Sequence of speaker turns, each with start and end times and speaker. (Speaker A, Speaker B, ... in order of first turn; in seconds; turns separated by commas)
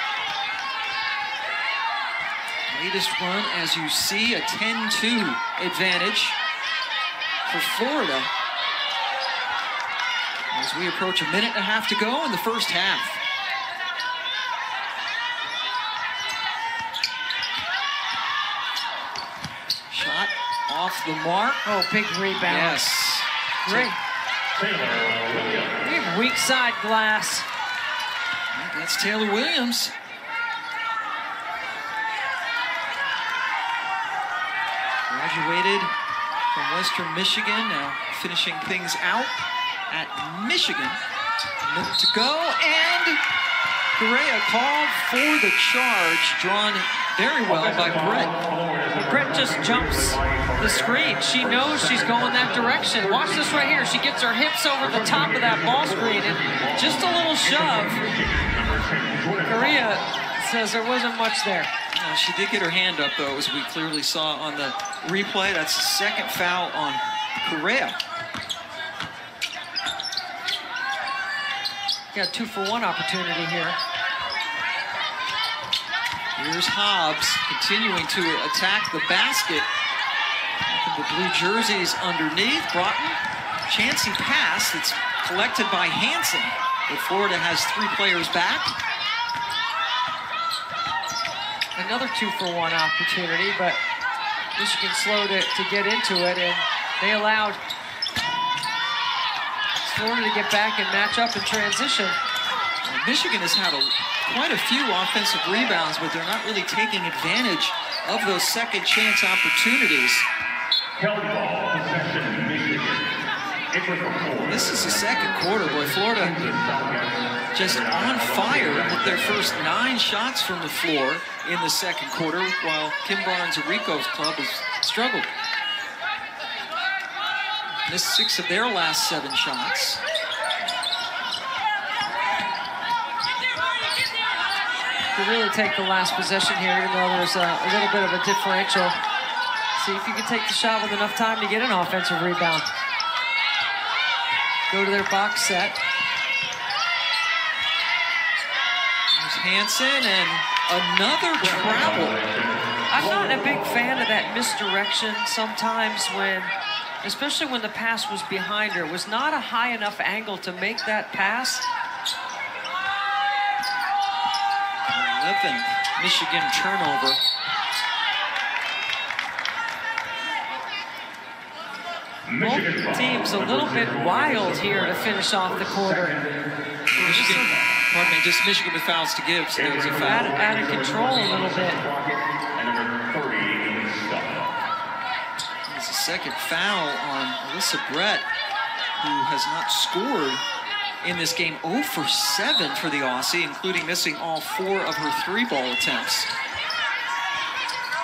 Speaker A: 2.7-6.4, Speaker A: 7.5-8.3, Speaker A: 10.5-13.2, Speaker A: 19.9-21.7, Speaker B: 21.6-22.8, Speaker A: 22.4-23.9, Speaker B: 23.6-24.0, Speaker C: 24.6-25.8, Speaker B: 25.8-27.5, Speaker A: 28.5-29.9, Speaker A: 35.1-36.0, Speaker A: 36.5-39.4, Speaker A: 39.9-41.0, Speaker A: 41.6-43.2, Speaker A: 44.0-48.3, Speaker C: 47.5-53.7, Speaker B: 49.0-58.0, Speaker C: 54.8-59.9, Speaker B: 59.5-61.7, Speaker A: 61.9-68.0, Speaker B: 72.1-73.8, Speaker A: 76.4-79.7, Speaker A: 80.7-88.8, Speaker B: 91.8-93.8, Speaker B: 94.5-97.6, Speaker B: 99.8-102.2, Speaker A: 102.8-110.3, Speaker C: 111.0-113.1, Speaker C: 113.7-119.6, Speaker A: 114.4-116.4, Speaker A: 117.5-125.3, Speaker A: 127.8-130.0, Speaker B: 135.1-139.0, Speaker B: 139.8-142.7, Speaker B: 144.7-145.8, Speaker A: 149.1-152.2, Speaker C: 151.4-153.6, Speaker B: 152.9-161.7, Speaker A: 164.9-167.2, Speaker C: 172.3-176.5, Speaker B: 172.4-176.2, Speaker A: 176.9-180.4, Speaker B: 177.0-177.5, Speaker C: 177.1-177.5, Speaker C: 179.6-184.6, Speaker B: 180.0-181.8, Speaker A: 185.7-188.3, Speaker A: 189.0-190.4, Speaker A: 191.0-196.3